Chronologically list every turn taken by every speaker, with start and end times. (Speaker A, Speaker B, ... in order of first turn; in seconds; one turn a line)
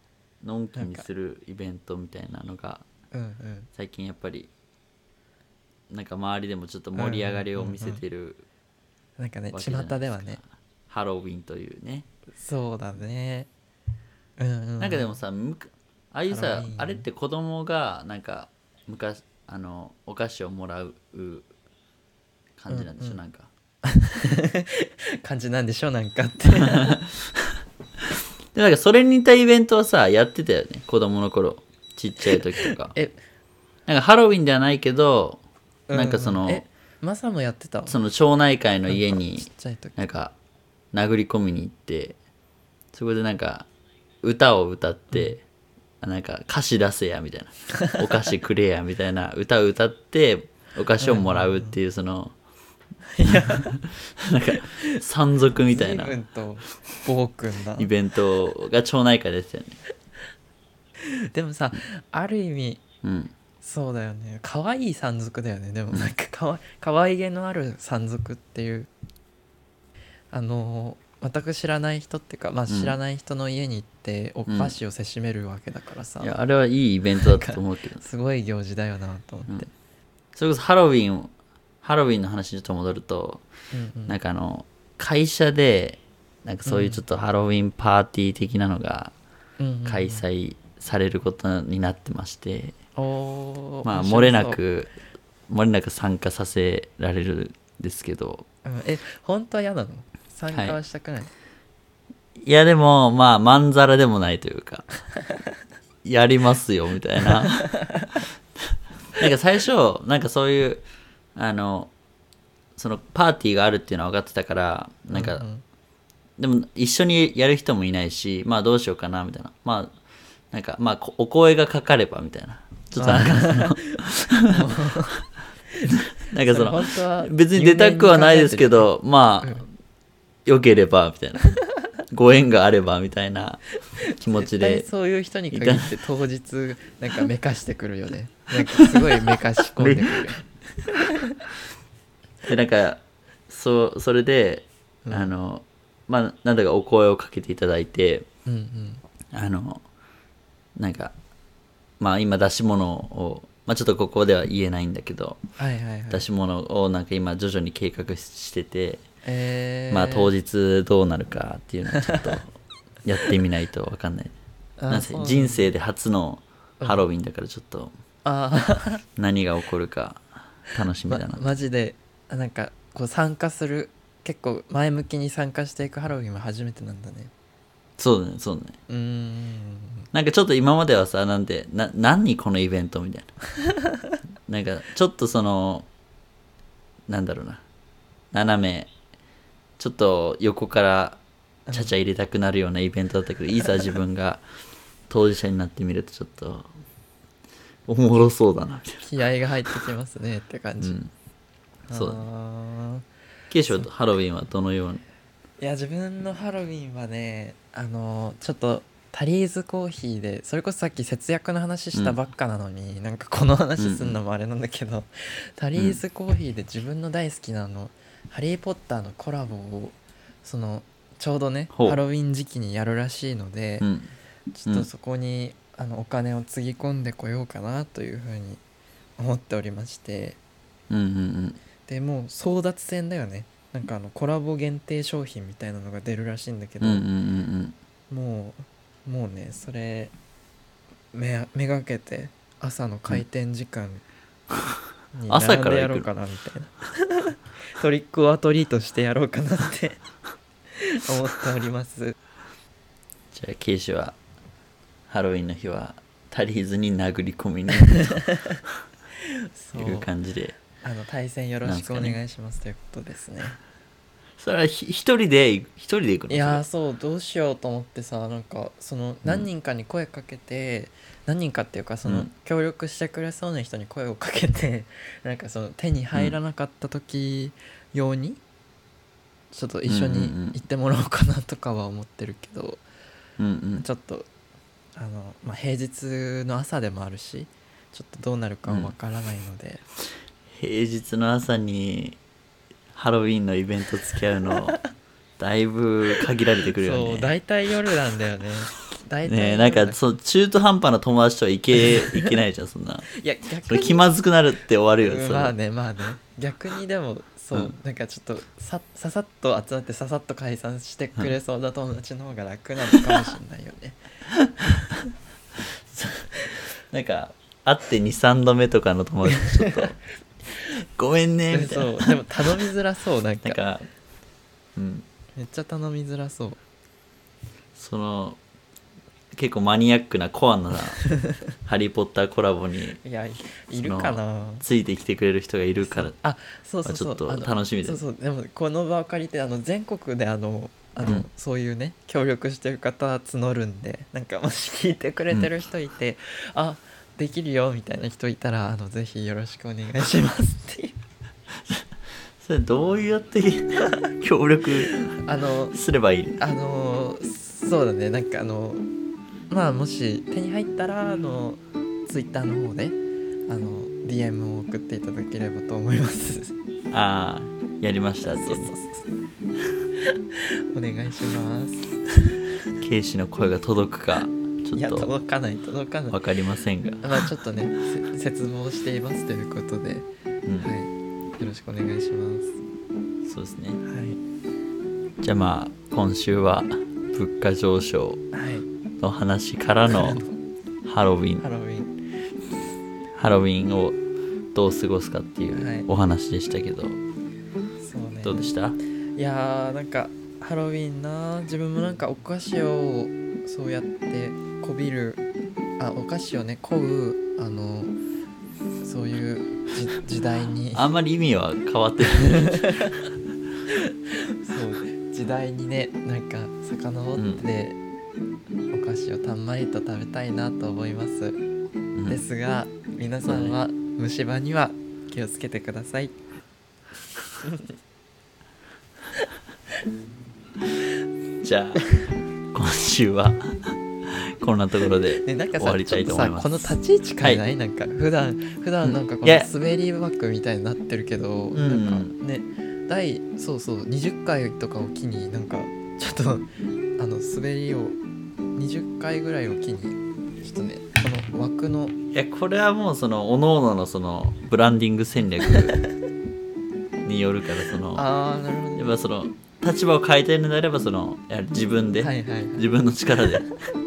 Speaker A: 0.4-2.9
Speaker B: 0.8-1.1
Speaker B: 3.1-3.7
Speaker A: 3.8-4.5
Speaker A: 5.9-8.4
Speaker B: 7.0-8.0
Speaker B: 9.2-10.4
Speaker A: 9.5-12.1
Speaker B: 12.3-13.5
Speaker B: 14.4-15.1
Speaker A: 14.8-21.5
Speaker B: 16.3-17.1
Speaker A: 22.6-23.5
Speaker B: 22.7-23.2
Speaker B: 23.8-27.0
Speaker A: 28.5-33.0
Speaker B: 32.7-33.2
Speaker A: 33.9-36.7
Speaker B: 35.9-38.0
Speaker A: 37.9-40.3
Speaker B: 38.9-40.0
Speaker A: 40.9-42.2
Speaker A: 42.9-43.7
Speaker A: 44.2-45.4
Speaker A: 46.0-52.3
Speaker B: 51.0-51.8
Speaker B: 53.1-53.8
Speaker A: 53.3-56.2
Speaker B: 54.6-55.0
Speaker B: 55.7-57.9
Speaker A: 57.8-59.8
Speaker B: 61.0-62.8
Speaker A: 63.0-63.3
Speaker B: 63.6-68.9
Speaker B: 70.3-76.4
Speaker A: 72.7-73.0
Speaker A: 74.5-74.8
Speaker A: 76.2-78.0
Speaker B: 77.2-79.7
Speaker A: 80.3-83.5
Speaker B: 83.7-84.2
Speaker A: 84.1-89.1
Speaker B: 86.7-87.0
Speaker B: 89.6-90.2
Speaker A: 89.8-92.8
Speaker B: 93.0-94.6
Speaker A: 93.8-94.9
Speaker A: 95.5-98.5
Speaker B: 98.7-101.3
Speaker A: 100.5-100.8
Speaker A: 102.4-104.9
Speaker A: 106.0-107.8
Speaker B: 107.6-108.2
Speaker A: 109.2-111.9
Speaker A: 112.8-115.5
Speaker B: 115.1-115.6
Speaker A: 116.4-120.0
Speaker A: 120.5-124.8
Speaker B: 123.0-125.2
Speaker B: 125.8-129.7
Speaker A: 126.2-129.7
Speaker A: 130.5-131.6
Speaker A: 132.1-134.9
Speaker B: 134.3-140.4
Speaker A: 135.5-136.0
Speaker A: 138.8-140.4
Speaker A: 142.4-148.3
Speaker B: 145.1-145.3
Speaker B: 148.5-149.0
Speaker A: 149.3-149.8
Speaker A: 150.8-151.1
Speaker A: 152.0-155.4
Speaker B: 155.6-156.3
Speaker A: 156.1-159.1
Speaker B: 159.2-160.3
Speaker A: 159.9-162.5
Speaker B: 161.9-162.3
Speaker A: 163.1-164.3
Speaker B: 164.8-165.7
Speaker A: 164.9-167.9
Speaker B: 166.8-167.1
Speaker B: 168.2-169.0
Speaker A: 169.2-171.5
Speaker B: 171.1-177.3
Speaker A: 178.0-178.8
Speaker B: 178.9-180.1
Speaker A: 180.1-183.4
Speaker A: 184.5-185.9
Speaker A: 187.1-187.6
Speaker A: 188.3-188.9
Speaker A: 189.8-194.4
Speaker B: 191.7-191.9
Speaker A: 195.1-196.7
Speaker A: 197.9-199.1
Speaker B: 199.0-201.0
Speaker A: 200.8-201.1
Speaker B: 201.9-203.1
Speaker A: 201.9-202.2
Speaker A: 203.5-205.0
Speaker B: 205.6-223.9
Speaker A: 213.8-214.2
Speaker A: 215.7-216.0
Speaker A: 221.7-222.0
Speaker A: 223.8-224.2
Speaker B: 224.6-228.6
Speaker B: 229.2-230.4
Speaker A: 230.9-231.6
Speaker B: 231.9-237.1
Speaker A: 236.8-237.8
Speaker B: 238.1-240.1
Speaker B: 241.1-244.0
Speaker B: 245.1-250.0
Speaker A: 245.3-246.1
Speaker B: 250.8-252.2
Speaker A: 253.3-254.2
Speaker A: 255.1-258.2
Speaker B: 257.7-258.6
Speaker B: 259.6-260.1
Speaker A: 259.7-260.6
Speaker B: 260.8-263.6
Speaker A: 261.6-262.2
Speaker A: 264.4-266.6
Speaker B: 266.3-278.4
Speaker B: 279.5-282.8
Speaker A: 279.9-280.6
Speaker A: 283.4-283.9
Speaker B: 283.8-284.3
Speaker B: 285.0-289.9
Speaker A: 288.6-288.9
Speaker A: 290.5-292.2
Speaker A: 292.9-294.8
Speaker A: 295.4-297.3
Speaker B: 296.8-300.0
Speaker A: 299.2-303.1
Speaker B: 301.8-302.4
Speaker B: 303.1-304.1
Speaker A: 303.7-305.6
Speaker B: 305.0-314.0
Speaker A: 314.4-314.8
Speaker A: 315.9-320.0
Speaker B: 319.2-319.9
Speaker A: 320.7-322.6
Speaker B: 321.5-323.6
Speaker A: 323.4-323.9
Speaker A: 324.8-325.1
Speaker B: 325.4-326.6
Speaker A: 327.8-328.4
Speaker A: 329.3-333.0
Speaker B: 333.0-334.7
Speaker A: 333.8-336.2
Speaker B: 335.8-351.0
Speaker A: 336.9-338.0
Speaker A: 352.4-355.1
Speaker B: 355.0-355.8
Speaker A: 355.7-356.4
Speaker B: 356.4-358.9
Speaker B: 359.5-366.6
Speaker A: 366.9-368.7
Speaker B: 368.3-369.1
Speaker B: 370.1-372.2
Speaker A: 372.8-375.1
Speaker B: 374.8-376.2
Speaker A: 376.1-377.3
Speaker B: 377.0-380.1
Speaker A: 380.5-380.7
Speaker B: 380.6-382.6
Speaker A: 383.2-383.8
Speaker B: 383.8-384.2
Speaker A: 385.2-388.2
Speaker B: 388.3-388.7
Speaker A: 389.0-390.2
Speaker B: 389.9-390.4
Speaker A: 390.9-391.4
Speaker B: 391.4-391.9
Speaker A: 393.1-394.0
Speaker A: 394.5-397.0
Speaker B: 395.5-395.9
Speaker B: 397.8-398.5
Speaker A: 398.2-398.8
Speaker B: 399.1-405.2
Speaker B: 405.8-407.9
Speaker B: 408.8-410.9
Speaker A: 410.7-413.1
Speaker B: 412.1-413.0
Speaker B: 414.3-417.8
Speaker A: 417.1-417.4
Speaker B: 418.7-421.4
Speaker A: 421.9-422.2
Speaker B: 422.1-426.1
Speaker A: 423.2-423.6
Speaker B: 427.4-427.7
Speaker A: 431.4-432.0
Speaker A: 432.5-437.4
Speaker B: 435.2-448.0
Speaker A: 438.8-439.5
Speaker A: 441.5-442.1
Speaker B: 448.6-451.9
Speaker A: 452.1-455.8
Speaker A: 457.1-458.1
Speaker B: 457.9-458.9
Speaker A: 458.8-463.5
Speaker B: 462.0-462.7
Speaker B: 463.3-463.6